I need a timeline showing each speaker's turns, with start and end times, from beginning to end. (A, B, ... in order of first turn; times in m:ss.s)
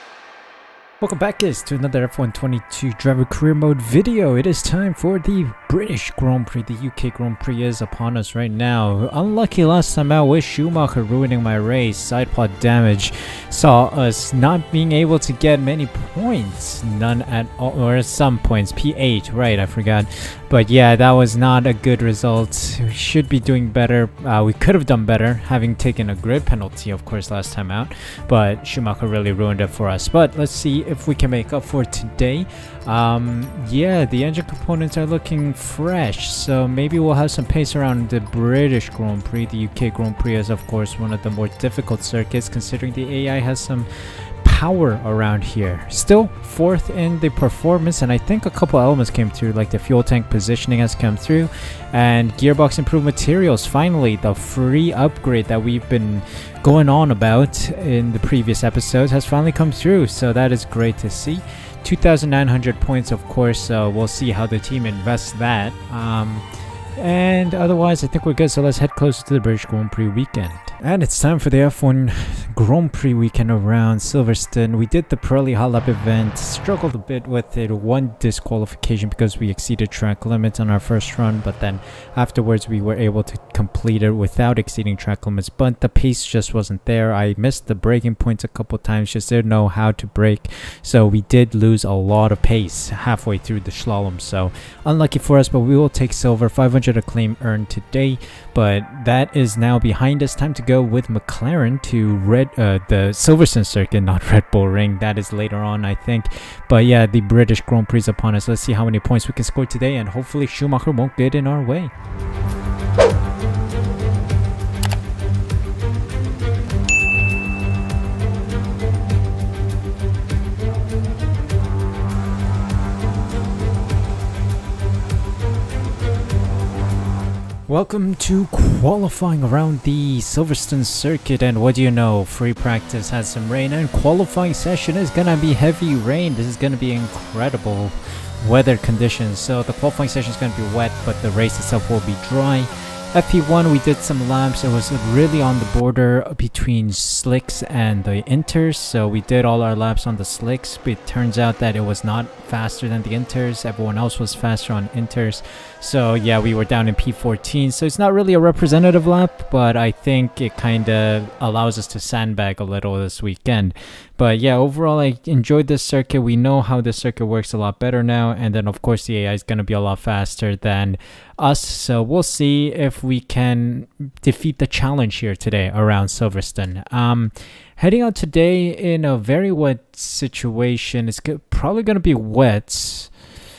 0:01.0-0:43.9 A
0:44.4-1:06.4 A
1:07.0-1:51.9 A
2:07.7-3:03.1 A